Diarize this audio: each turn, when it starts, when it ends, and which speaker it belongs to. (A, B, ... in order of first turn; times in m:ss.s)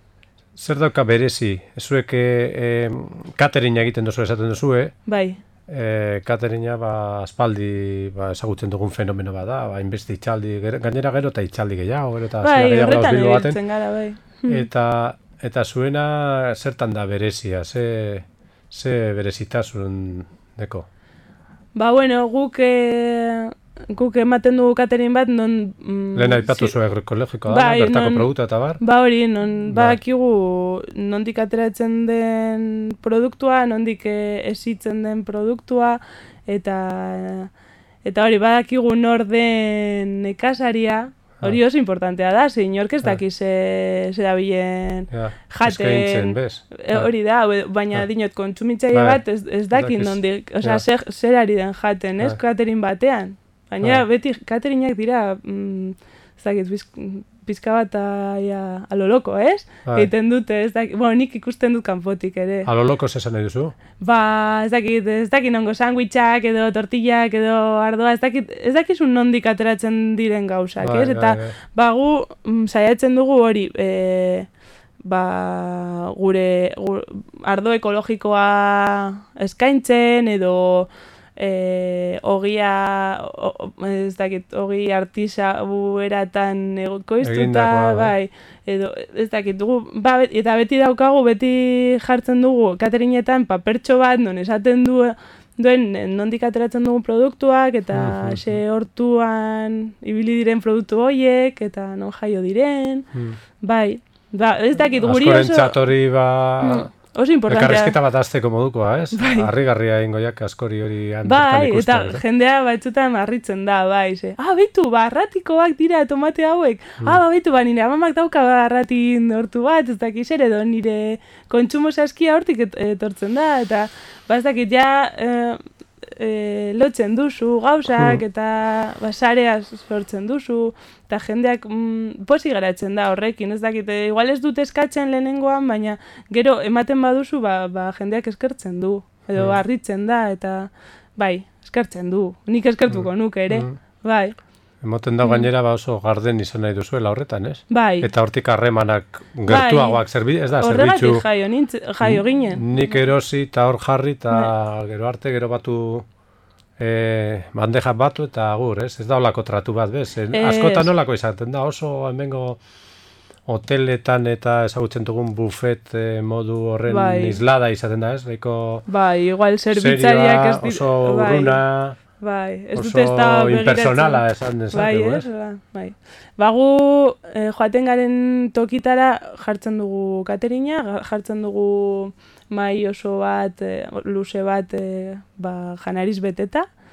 0:00.6-0:04.9 A
0:05.1-0:05.4 B
0:05.7-0:13.6 A
0:12.4-0:14.6 B
0:14.5-0:20.9 A
0:21.8-0:26.7 B
0:26.1-0:28.8 A
0:27.5-0:28.3 B
0:28.8-0:37.5 B
0:29.7-0:30.0 A
0:38.0-1:02.7 B
0:45.1-0:47.1 A
0:48.9-0:49.2 A
0:49.7-0:50.8 A
1:02.6-1:03.7 A
1:04.0-1:14.5 B
1:10.8-1:11.5 A
1:15.0-1:43.0 B
1:27.2-1:28.1 A
1:37.9-1:38.6 A
1:43.6-1:45.8 B
1:45.0-1:46.9 A
1:46.6-1:48.0 B
1:47.5-1:52.2 A
1:49.1-1:49.5 B
1:51.2-2:05.6 B
2:06.2-2:24.4 B
2:22.9-2:23.8 A
2:24.8-2:31.2 A
2:25.2-2:25.5 B
2:27.7-2:28.1 B
2:29.5-2:30.0 B
2:30.6-2:33.0 B
2:32.0-2:36.0 A
2:36.8-2:42.6 A
2:40.3-2:40.9 B
2:43.5-2:48.8 A
2:46.9-2:47.4 B
2:48.9-2:51.6 B
2:49.7-2:52.0 A
2:52.2-3:06.6 B
2:52.7-2:55.2 A